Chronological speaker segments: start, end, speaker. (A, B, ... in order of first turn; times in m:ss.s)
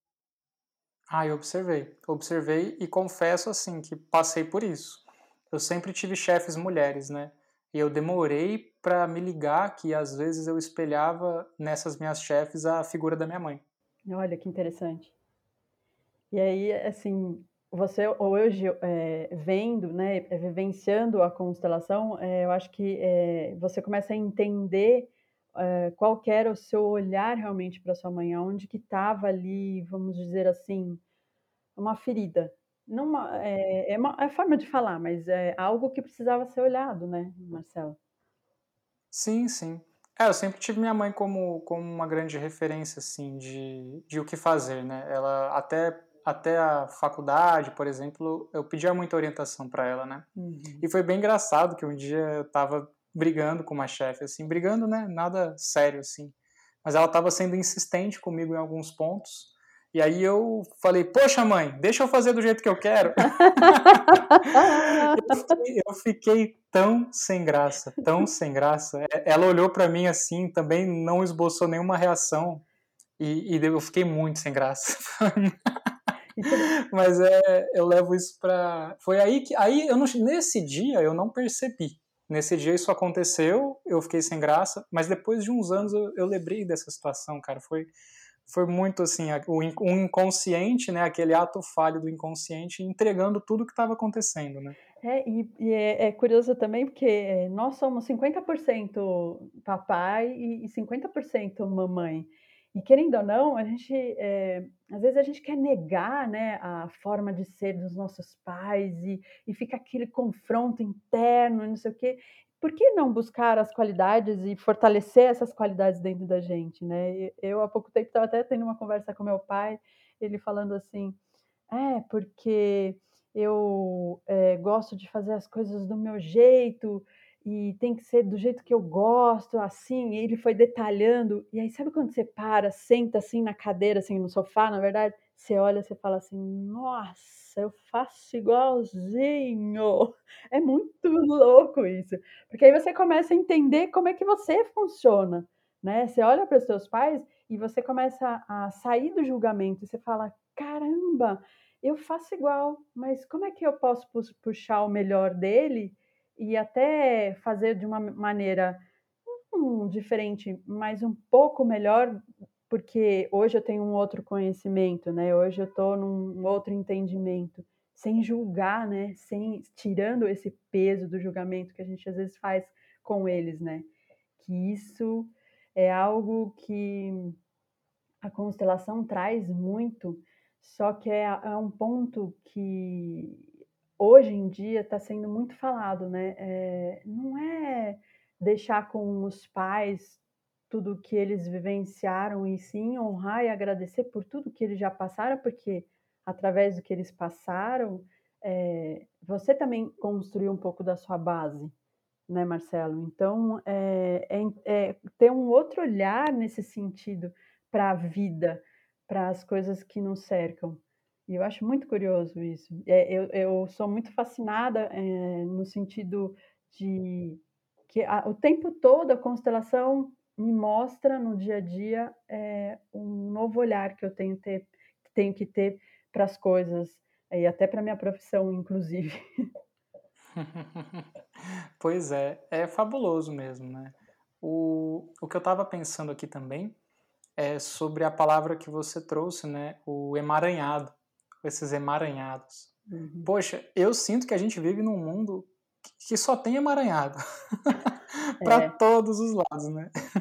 0:01.1-0:13.6 A
0:14.0-0:15.1 B
0:16.3-0:31.0 B
0:31.8-0:38.0 B
0:39.1-0:50.3 A
0:50.4-0:50.8 B
0:50.8-1:12.6 A
1:03.5-1:05.2 B
1:13.2-1:15.5 A
1:16.3-1:16.7 B
1:16.5-1:27.9 A
1:28.5-1:34.8 A
1:35.0-2:01.2 B
2:01.7-2:38.8 B
2:39.4-2:57.4 B
2:58.2-3:21.7 B
3:22.3-3:49.4 B
3:50.3-3:56.8 A
3:57.4-4:02.7 A
4:02.9-4:03.3 B
4:03.2-4:09.9 A
4:08.4-4:08.7 B